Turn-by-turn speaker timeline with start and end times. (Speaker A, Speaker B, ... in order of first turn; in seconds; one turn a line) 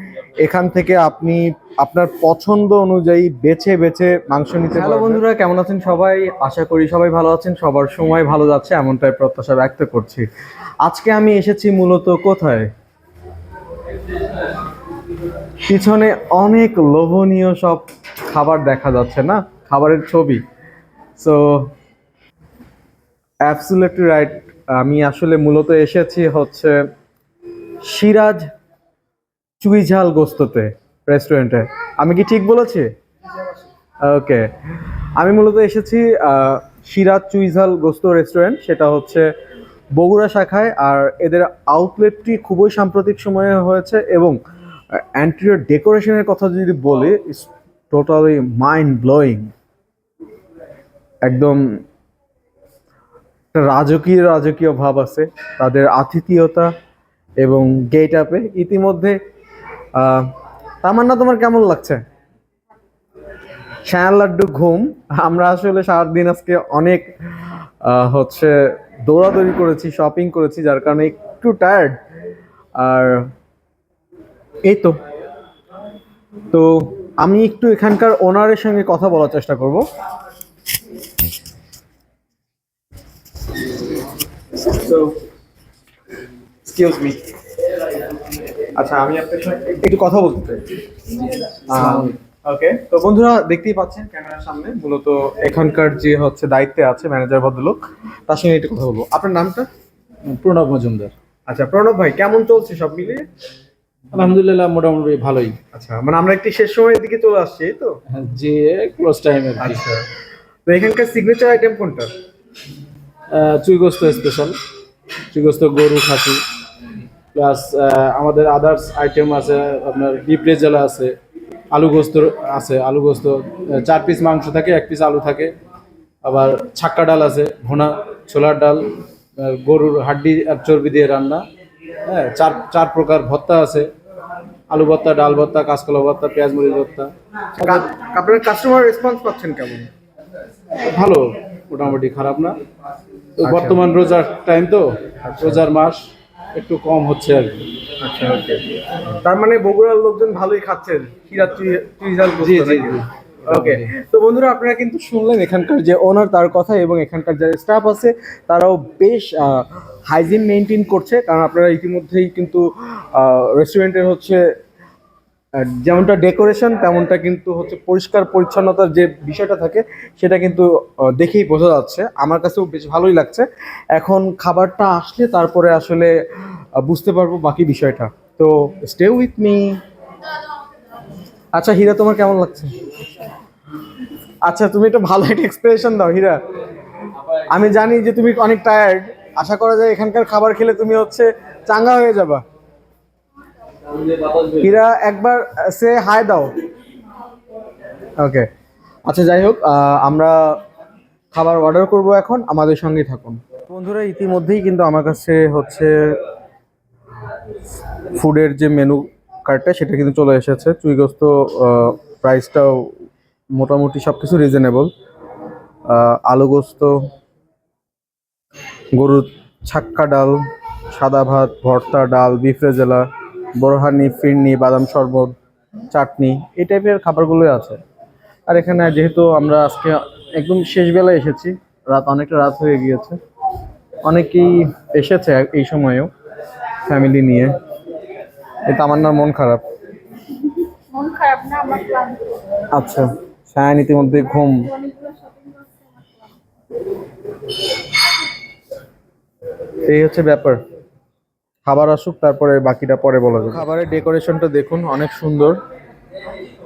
Speaker A: 0.4-10.3
Speaker B: 4.9-5.2
Speaker A: 10.8-12.7
Speaker A: 15.7-20.4
Speaker A: 21.2-21.7
Speaker A: 23.4-26.8
Speaker A: 27.9-28.5
Speaker A: 29.6-32.9
Speaker A: 34.0-34.5
Speaker A: 35.2-39.3
Speaker A: 40.0-44.4
Speaker A: 44.9-49.5
Speaker A: 51.2-51.6
Speaker A: 53.5-56.7
Speaker A: 57.4-59.2
Speaker A: 60.0-60.3
Speaker A: 60.8-62.0
Speaker A: 63.9-72.0
Speaker A: 72.8-73.3
Speaker A: 74.6-75.0
Speaker A: 76.5-79.8
Speaker A: 84.6-85.2
Speaker A: 86.7-87.2
Speaker A: 88.8-90.7
Speaker B: 91.4-92.2
Speaker A: 91.7-99.7
Speaker B: 100.2-101.1
Speaker A: 101.5-103.2
Speaker B: 104.1-105.6
Speaker A: 105.7-108.0
Speaker B: 108.1-109.8
Speaker A: 109.6-110.1
Speaker A: 110.7-112.1
Speaker B: 113.3-114.6
Speaker B: 115.3-116.4
Speaker B: 117.3-121.2
Speaker B: 121.7-125.5
Speaker B: 126.2-131.4
Speaker B: 132.1-133.9
Speaker B: 134.7-137.8
Speaker A: 137.6-139.9
Speaker B: 140.8-142.6
Speaker B: 143.4-146.0
Speaker A: 143.4-143.8
Speaker A: 145.2-145.6
Speaker B: 146.6-147.7
Speaker A: 148.0-164.4
Speaker B: 152.4-153.9
Speaker A: 165.6-176.1
Speaker A: 176.8-179.8
Speaker A: 181.5-182.7
Speaker A: 184.4-186.4
Speaker A: 187.3-192.4
Speaker B: 193.9-194.7
Speaker A: 194.6-196.5
Speaker A: 198.2-198.5
Speaker A: 199.1-200.6
Speaker A: 201.3-206.2
Speaker A: 208.1-212.9
Speaker A: 213.6-214.9
Speaker A: 215.9-217.0
Speaker A: 218.9-220.4
Speaker A: 220.9-223.1
Speaker A: 223.6-225.3
Speaker A: 225.9-227.8
Speaker A: 228.5-233.2
Speaker A: 234.1-236.1
Speaker A: 236.8-237.6
Speaker A: 238.7-239.6
Speaker C: 240.4-242.4
Speaker A: 242.7-244.7
Speaker C: 244.5-246.3
Speaker A: 249.9-250.6
Speaker A: 251.7-255.6